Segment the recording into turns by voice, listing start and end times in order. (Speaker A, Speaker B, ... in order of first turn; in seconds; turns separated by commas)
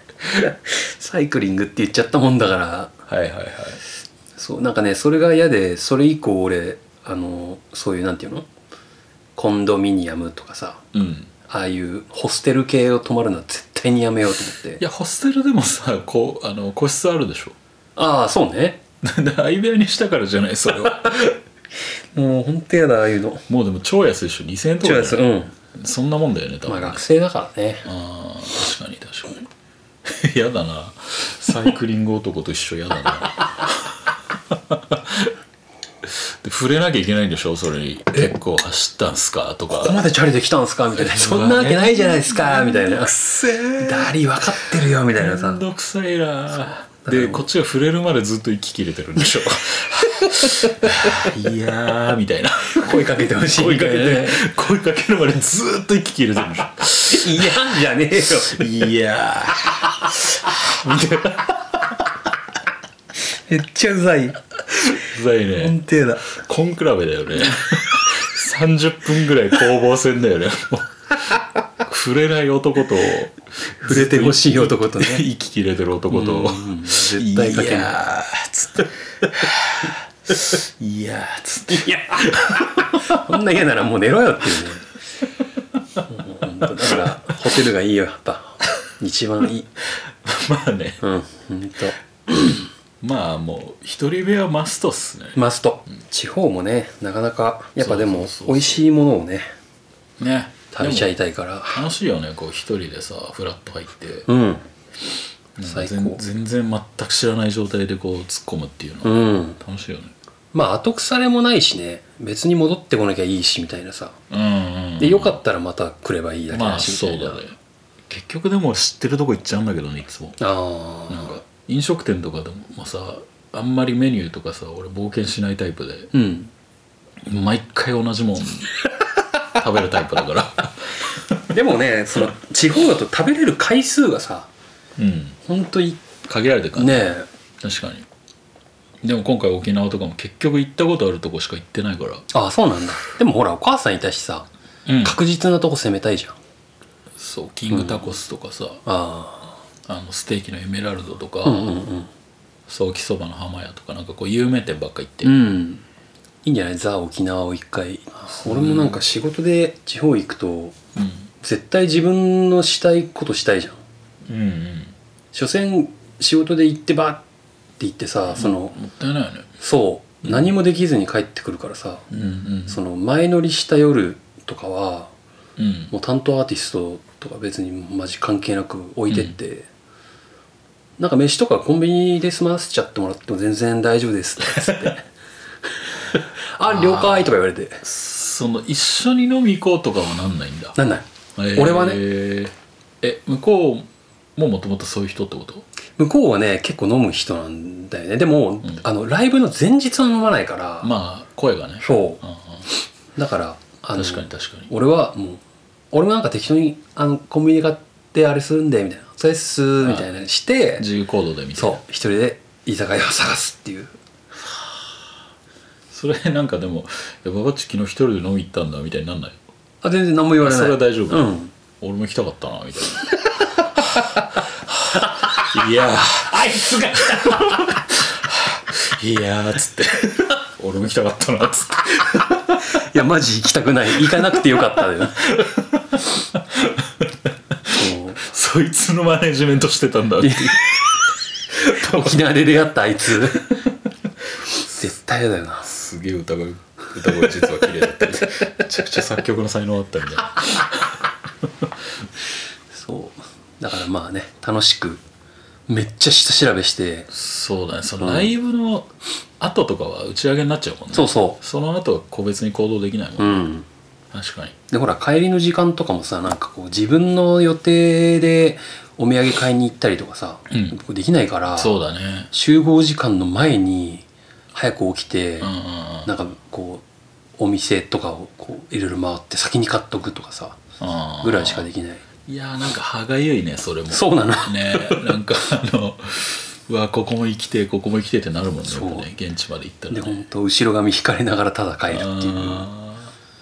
Speaker A: 0.3-2.9, Speaker B: 3.1-3.8, Speaker A: 4.4-8.5, Speaker A: 9.4-10.8, Speaker B: 10.9-11.3, Speaker A: 11.5-14.8, Speaker B: 14.8-17.6, Speaker A: 18.0-18.8, Speaker B: 19.0-21.4, Speaker A: 22.1-23.5, Speaker B: 23.5-27.0, Speaker A: 24.8-25.5, Speaker A: 26.7-27.9, Speaker B: 27.9-29.5, Speaker B: 30.0-35.3, Speaker B: 36.0-40.0, Speaker A: 39.7-43.1, Speaker B: 41.0-44.2, Speaker A: 43.8-45.6, Speaker B: 45.1-57.8, Speaker A: 47.0-47.5, Speaker A: 50.2-51.2, Speaker A: 52.7-54.4, Speaker A: 57.1-58.8, Speaker B: 58.4-62.0, Speaker A: 63.4-64.4, Speaker B: 64.9-65.8, Speaker A: 65.6-66.3, Speaker B: 66.3-83.2, Speaker A: 73.8-75.2, Speaker A: 76.1-78.0, Speaker A: 81.7-84.9, Speaker A: 86.1-89.7, Speaker B: 90.2-91.0, Speaker A: 91.0-92.6, Speaker B: 93.0-95.4, Speaker A: 95.3-99.5, Speaker B: 97.8-98.8, Speaker B: 100.2-101.2, Speaker A: 100.7-101.8, Speaker B: 101.7-104.3, Speaker A: 104.3-104.6, Speaker B: 105.6-110.1, Speaker A: 105.6-106.2, Speaker A: 109.0-109.6, Speaker A: 110.5-114.2, Speaker B: 114.3-115.4, Speaker A: 115.0-117.4, Speaker B: 116.5-117.6, Speaker B: 118.1-120.4, Speaker A: 120.4-121.4, Speaker B: 121.1-126.1, Speaker A: 126.1-126.5, Speaker B: 127.2-128.7, Speaker B: 129.5-131.5, Speaker A: 131.5-134.5, Speaker B: 135.0-135.4, Speaker A: 135.5-136.1, Speaker B: 136.2-137.1, Speaker A: 136.8-137.3, Speaker B: 137.6-138.1, Speaker B: 139.0-142.3, Speaker A: 142.3-144.5, Speaker B: 144.9-145.2, Speaker A: 145.0-146.4, Speaker B: 147.2-148.8, Speaker A: 147.7-148.1, Speaker A: 148.9-149.5, Speaker B: 149.9-151.7, Speaker A: 151.4-152.1, Speaker B: 152.7-155.3, Speaker A: 155.2-155.8, Speaker A: 156.4-160.8, Speaker B: 158.3-159.0, Speaker B: 161.0-161.3, Speaker A: 161.4-163.8, Speaker B: 164.3-164.9, Speaker A: 165.3-167.2, Speaker A: 167.8-168.8, Speaker B: 168.3-169.5, Speaker A: 169.6-172.1, Speaker B: 170.2-170.5, Speaker B: 172.1-172.8, Speaker A: 172.7-175.1, Speaker B: 175.6-175.9, Speaker A: 175.9-179.7, Speaker B: 179.1-179.3, Speaker A: 181.0-185.0, Speaker A: 186.0-187.8, Speaker B: 186.7-190.8, Speaker A: 190.8-192.0, Speaker B: 191.4-195.7, Speaker A: 196.0-200.9, Speaker B: 200.8-202.7, Speaker A: 201.8-202.2, Speaker A: 203.2-210.9, Speaker B: 203.9-204.7, Speaker B: 209.8-210.1, Speaker B: 210.8-211.8, Speaker A: 211.6-213.9, Speaker B: 215.9-219.4, Speaker A: 219.8-221.5, Speaker B: 220.4-223.2, Speaker B: 223.8-232.8, Speaker A: 225.0-225.5, Speaker A: 226.3-227.8, Speaker A: 232.7-235.2, Speaker B: 234.1-234.4, Speaker B: 235.2-237.1, Speaker B: 237.7-241.0, Speaker A: 237.7-238.2, Speaker A: 240.2-240.8, Speaker A: 241.6-243.6, Speaker B: 241.7-242.1, Speaker A: 244.6-245.7, Speaker B: 245.6-251.7, Speaker A: 252.7-255.0, Speaker A: 255.7-257.1, Speaker B: 257.1-263.5, Speaker A: 258.0-258.3, Speaker A: 260.9-261.4, Speaker A: 263.2-263.7, Speaker B: 264.1-264.6, Speaker A: 264.7-271.8, Speaker B: 271.6-272.3, Speaker A: 272.3-275.5, Speaker B: 275.4-276.1, Speaker A: 276.1-276.8, Speaker A: 277.4-280.6, Speaker B: 280.8-281.7, Speaker A: 281.2-282.0, Speaker B: 282.3-290.2, Speaker A: 283.9-284.9, Speaker A: 288.6-289.1, Speaker A: 289.9-292.7, Speaker B: 291.9-293.1